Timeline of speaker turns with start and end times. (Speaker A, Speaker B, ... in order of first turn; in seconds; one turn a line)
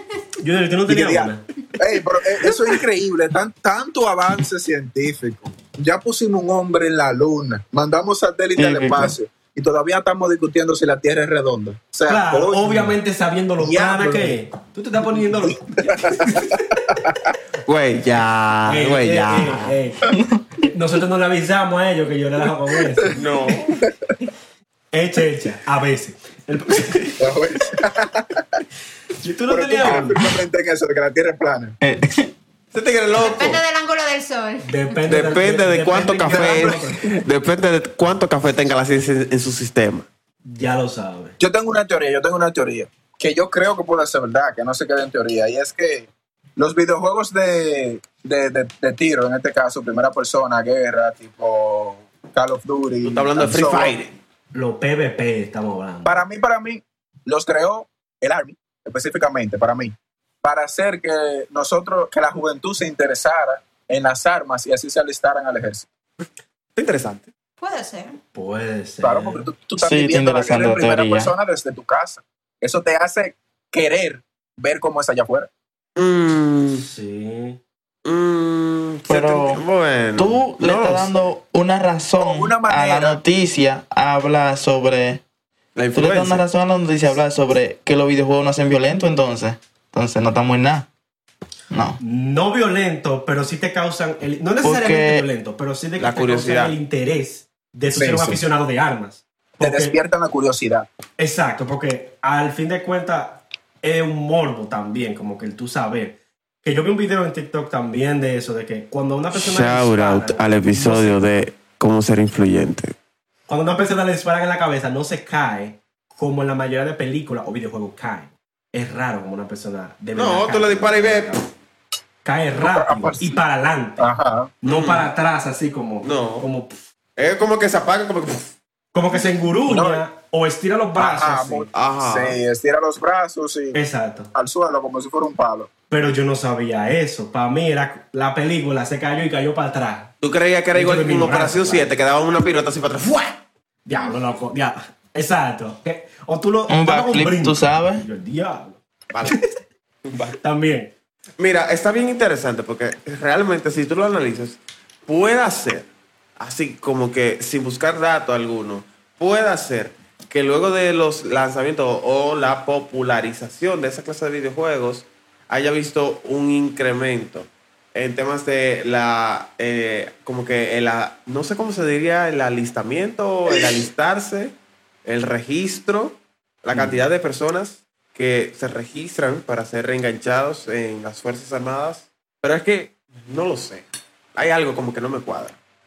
Speaker A: 0.4-1.4
Speaker B: 0.9-12.9
Speaker C: 8.6-9.1
Speaker A: 12.1-15.9
Speaker B: 13.6-14.4
Speaker B: 15.9-17.1
Speaker D: 17.7-19.7
Speaker A: 18.7-20.0
Speaker A: 20.6-23.2
Speaker D: 23.1-23.8
Speaker A: 24.9-27.1
Speaker B: 27.2-28.4
Speaker A: 29.2-30.2
Speaker B: 29.5-31.8
Speaker C: 31.8-32.3
Speaker D: 32.7-33.6
Speaker E: 33.2-34.9
Speaker A: 34.6-37.0
Speaker D: 35.1-40.1
Speaker B: 36.3-37.1
Speaker A: 40.5-41.4
Speaker B: 41.4-54.0
Speaker D: 53.0-54.1
Speaker A: 54.5-56.2
Speaker B: 56.0-65.9
Speaker D: 66.8-67.3
Speaker E: 67.6-68.2
Speaker A: 68.3-69.5
Speaker B: 69.0-75.5
Speaker C: 69.8-71.3
Speaker D: 76.0-76.8
Speaker A: 76.7-77.6
Speaker D: 78.0-81.3
Speaker C: 79.1-79.6
Speaker C: 80.2-85.2
Speaker B: 82.2-83.2
Speaker D: 85.8-86.4
Speaker C: 85.9-90.9
Speaker C: 91.7-92.0
Speaker A: 92.0-100.0
Speaker C: 94.6-95.3
Speaker D: 96.0-96.8
Speaker B: 97.9-98.4
Speaker B: 99.6-100.9
Speaker A: 101.2-111.2
Speaker D: 109.3-113.0
Speaker A: 113.5-121.4
Speaker D: 120.2-121.4
Speaker A: 122.2-126.8
Speaker B: 122.6-123.3
Speaker B: 124.0-124.5
Speaker D: 124.7-125.1
Speaker D: 126.0-126.5
Speaker D: 127.2-128.5
Speaker A: 128.9-131.7
Speaker B: 129.7-130.0
Speaker B: 131.0-133.8
Speaker D: 131.7-132.4
Speaker A: 133.7-134.3
Speaker B: 134.3-135.7
Speaker A: 135.9-140.1
Speaker D: 140.2-143.4
Speaker A: 140.7-141.9
Speaker A: 143.9-149.5
Speaker C: 146.7-148.1
Speaker D: 149.1-149.4
Speaker D: 150.1-150.3
Speaker A: 150.3-150.9
Speaker D: 151.4-155.9
Speaker D: 156.4-174.5
Speaker D: 175.1-183.8
Speaker A: 176.7-177.0
Speaker D: 184.4-185.6